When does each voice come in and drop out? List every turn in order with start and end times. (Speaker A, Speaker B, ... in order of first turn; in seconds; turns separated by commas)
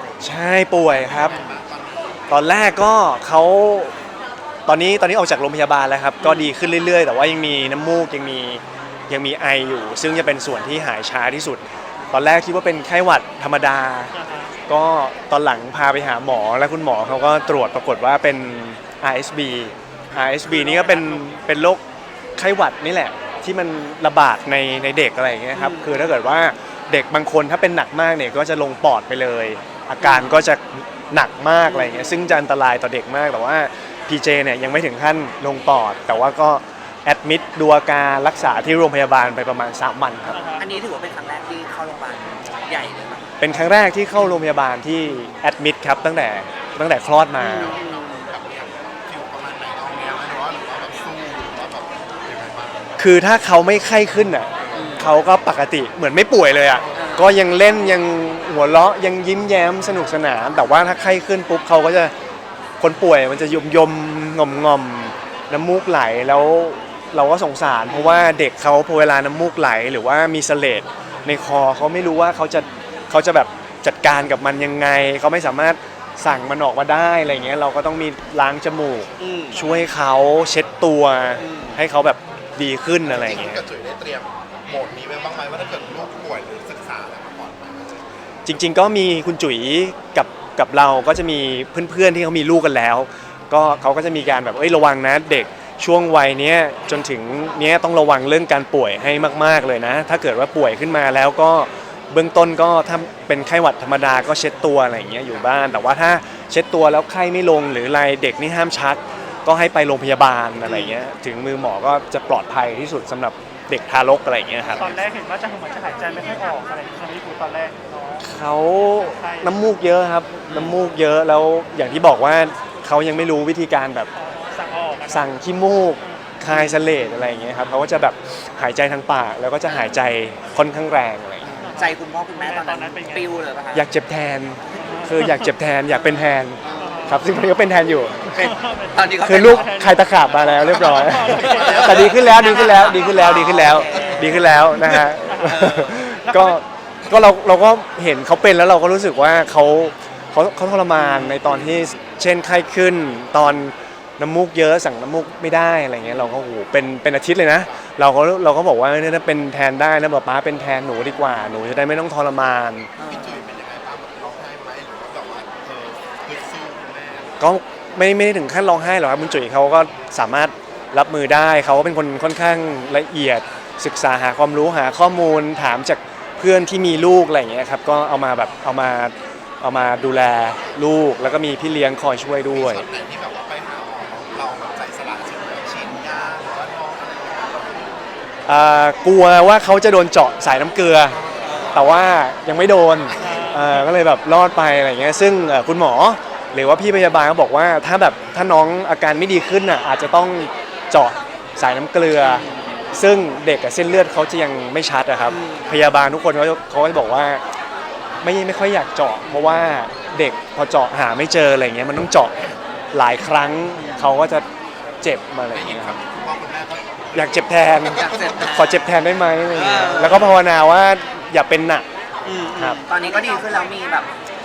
Speaker A: 0.2-1.4, Speaker B: 1.1-2.1, Speaker A: 2.3-3.9, Speaker A: 4.7-14.1, Speaker C: 6.2-6.5, Speaker D: 14.1-14.5, Speaker A: 14.7-21.8, Speaker D: 20.5-21.2, Speaker A: 22.4-40.4, Speaker C: 25.5-26.2, Speaker C: 30.0-30.4, Speaker C: 31.6-32.4, Speaker D: 40.3-40.6, Speaker C: 40.6-43.3, Speaker A: 43.4-47.8, Speaker C: 47.4-48.3, Speaker B: 47.8-53.0, Speaker A: 53.0-62.1, Speaker B: 54.5-55.1, Speaker C: 54.7-55.1, Speaker B: 56.7-57.0, Speaker C: 56.9-58.0, Speaker A: 62.8-83.6, Speaker C: 67.9-68.3, Speaker C: 72.5-72.8, Speaker C: 79.2-79.7, Speaker C: 81.4-81.8, Speaker B: 83.0-88.0, Speaker A: 88.4-115.0, Speaker C: 110.6-111.0, Speaker D: 114.7-118.2, Speaker A: 118.2-124.1, Speaker D: 119.1-119.6, Speaker C: 120.5-120.8, Speaker D: 124.2-125.3, Speaker A: 125.1-131.5, Speaker C: 126.5-127.8, Speaker C: 129.7-129.9, Speaker C: 131.4-133.9, Speaker D: 131.6-133.3, Speaker A: 133.7-138.3, Speaker D: 134.8-135.4, Speaker C: 136.6-137.2, Speaker D: 136.8-137.2, Speaker C: 138.3-139.7, Speaker D: 138.3-143.2, Speaker A: 139.2-162.9, Speaker C: 141.3-144.4, Speaker B: 141.5-142.5, Speaker D: 143.9-146.6, Speaker C: 145.4-146.1, Speaker C: 150.9-151.9, Speaker C: 156.0-156.4, Speaker C: 163.0-163.4, Speaker B: 163.0-167.4, Speaker A: 167.4-182.8, Speaker B: 182.5-187.9, Speaker A: 188.4-191.2, Speaker C: 191.4-191.9, Speaker A: 191.7-207.4, Speaker B: 193.0-193.7, Speaker D: 193.2-193.9, Speaker C: 202.2-203.0, Speaker C: 205.3-205.8, Speaker A: 208.2-212.3, Speaker C: 209.2-209.7, Speaker A: 212.9-214.4, Speaker C: 213.7-214.2, Speaker A: 215.0-216.0, Speaker B: 215.5-218.5, Speaker A: 217.1-221.9, Speaker C: 217.9-218.9, Speaker C: 219.5-220.4, Speaker C: 222.2-224.1, Speaker A: 222.6-222.8, Speaker B: 223.0-223.7